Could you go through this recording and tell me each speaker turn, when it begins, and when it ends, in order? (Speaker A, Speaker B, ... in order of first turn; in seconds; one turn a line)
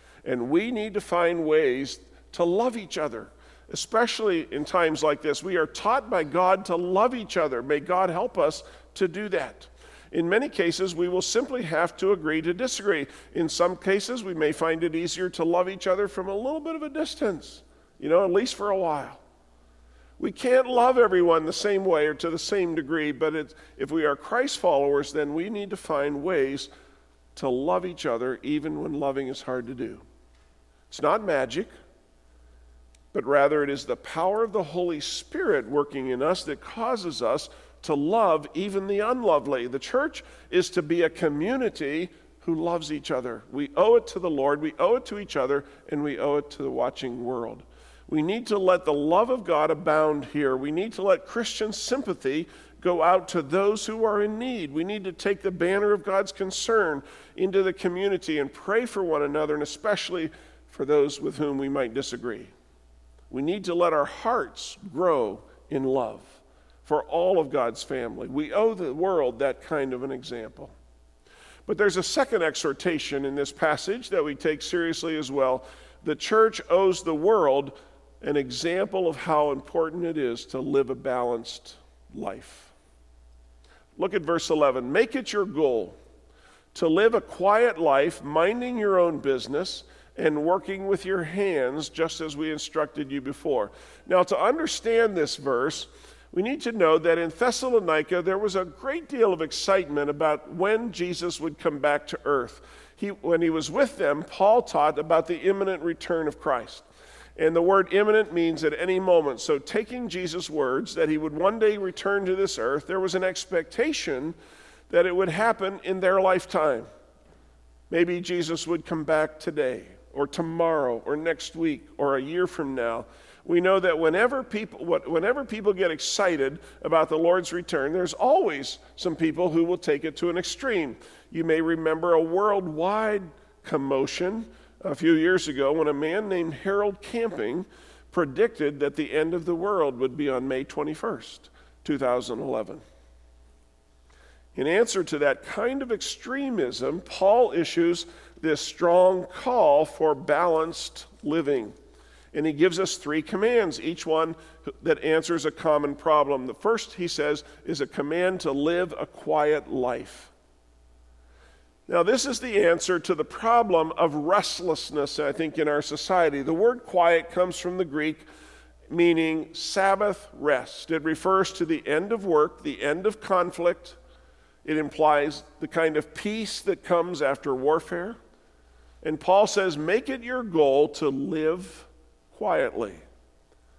Speaker A: 0.2-19.2
Speaker A: 20.2-26.7
Speaker A: 27.4-30.0
Speaker A: 30.9-31.7
Speaker A: 33.1-62.5
Speaker A: 63.3-70.8
Speaker A: 71.7-82.7
Speaker A: 84.0-86.0
Speaker A: 86.7-114.4
Speaker A: 114.9-116.9
Speaker A: 117.9-142.8
Speaker A: 144.6-151.7
Speaker A: 152.3-160.3
Speaker A: 161.9-168.2
Speaker A: 168.9-174.0
Speaker A: 174.7-178.2
Speaker A: 179.0-183.0